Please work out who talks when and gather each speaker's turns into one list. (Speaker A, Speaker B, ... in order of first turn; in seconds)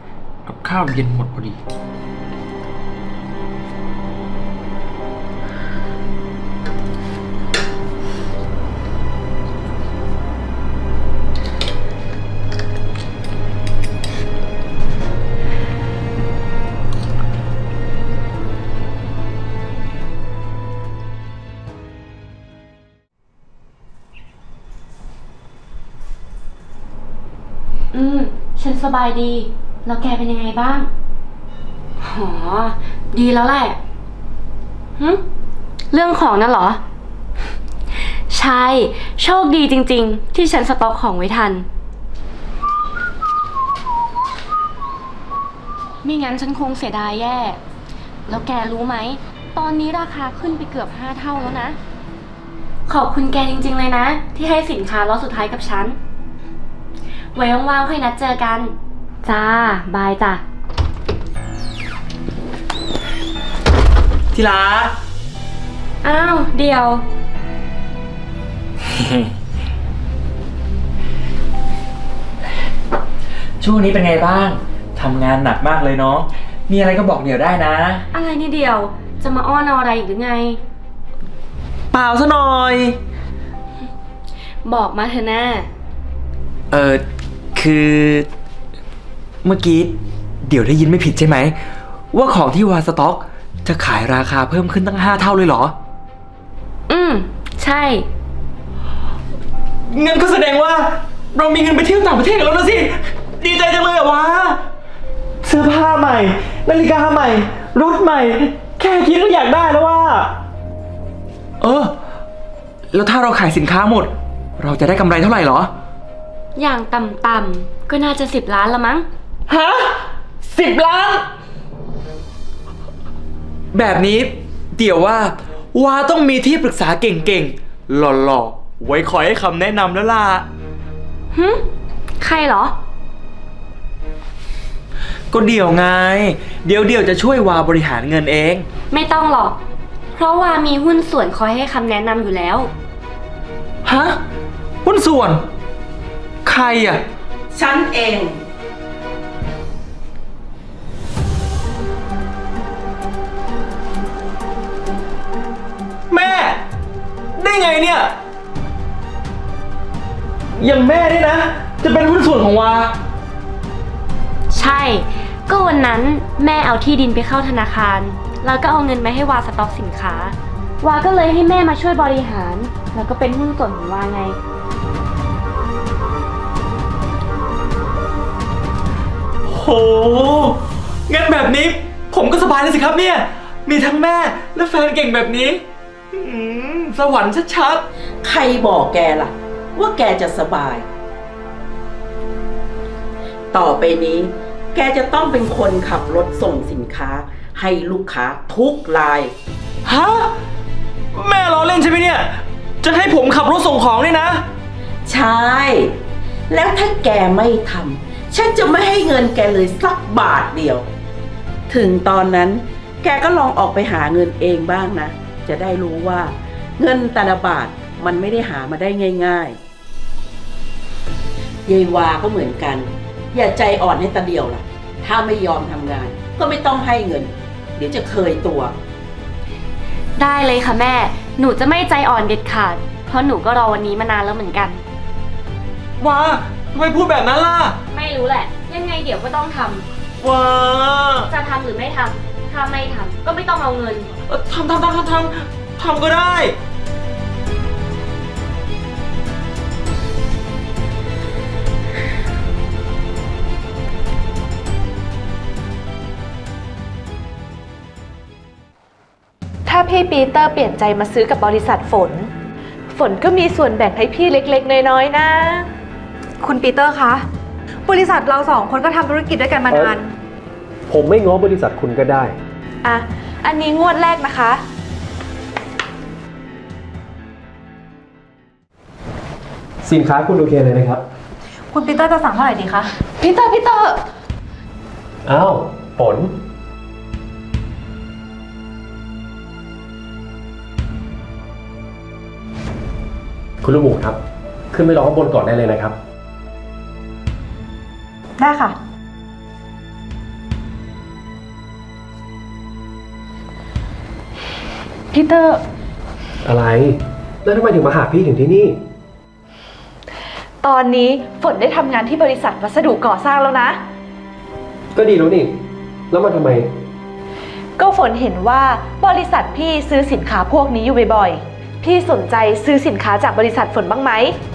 Speaker A: 0.4-1.6, 64.3-65.0, 69.0-69.3, 73.6-78.0, 81.9-83.0, 86.7-88.3, 89.4-91.6, 92.1-95.8, 99.9-104.6, 105.4-110.3, 111.6-112.0, 112.9-115.7, 119.5-121.3, 123.7-130.5, 135.3-138.7, 143.8-144.2, 144.8-145.4, 146.4-147.0, 156.1-156.6, 157.3-158.2, 160.6-163.0, 179.4-187.8, 199.8-200.4, 201.1-204.5, 236.0-237.8, 240.2-241.3, 244.2-246.6
Speaker B: 27.9-30.9, 32.1-33.8, 35.9-36.8, 38.3-41.6, 46.0-47.6, 48.3-51.8, 52.9-56.0, 57.3-58.7, 59.2-60.4, 66.0-67.0, 78.1-80.6, 84.6-85.7, 96.9-98.0, 116.6-119.0, 131.3-131.6, 132.2-132.7, 138.9-139.6, 140.2-142.7, 164.5-174.3, 230.2-234.8, 237.9-239.8, 241.3-244.1
Speaker C: 147.5-148.4, 188.2-190.8, 193.5-199.3, 205.1-206.0, 206.5-210.9, 211.7-219.6, 221.7-228.8
Speaker D: 259.6-262.3, 262.9-265.7, 272.8-274.6, 283.2-284.0, 305.1-305.6, 310.6-313.8, 317.8-324.3
Speaker E: 266.4-267.2, 267.9-270.1, 281.7-282.9, 298.4-298.7
Speaker F: 269.7-269.9, 270.9-272.3, 279.8-281.0, 285.2-286.3, 293.6-294.2, 294.7-295.9, 306.4-308.8, 314.9-315.5, 316.1-316.7